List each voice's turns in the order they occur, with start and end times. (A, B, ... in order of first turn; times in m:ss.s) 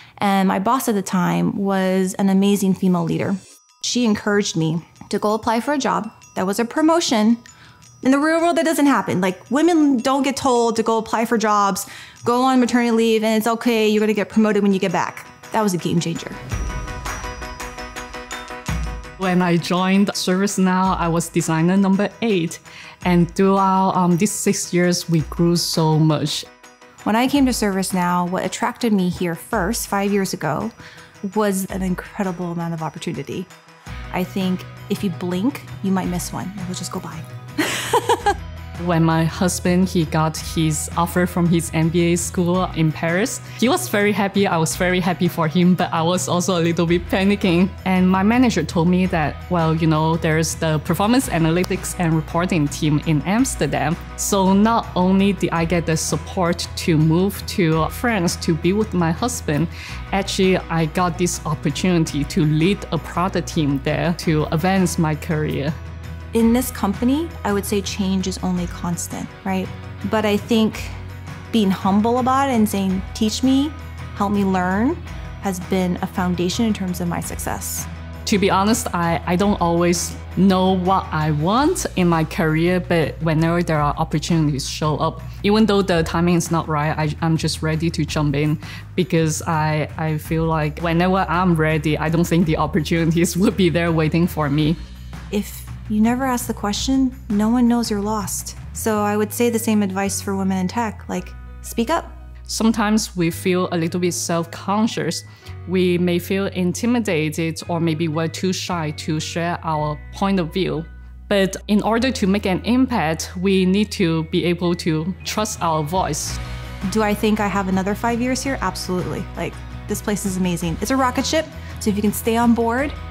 0:00.2-0:07.4 A
0:08.0-0:16.4 A
0:19.2-0:26.4 B
0:27.0-0:30.7 A
0:31.3-0:33.5 A
0:34.1-0:38.3 A
0:38.8-1:05.8 B
1:06.3-1:10.9 A
1:11.5-1:17.9 A
1:18.2-1:34.8 B
1:35.3-1:42.1 A
1:42.5-1:56.4 B
1:56.9-2:03.0 A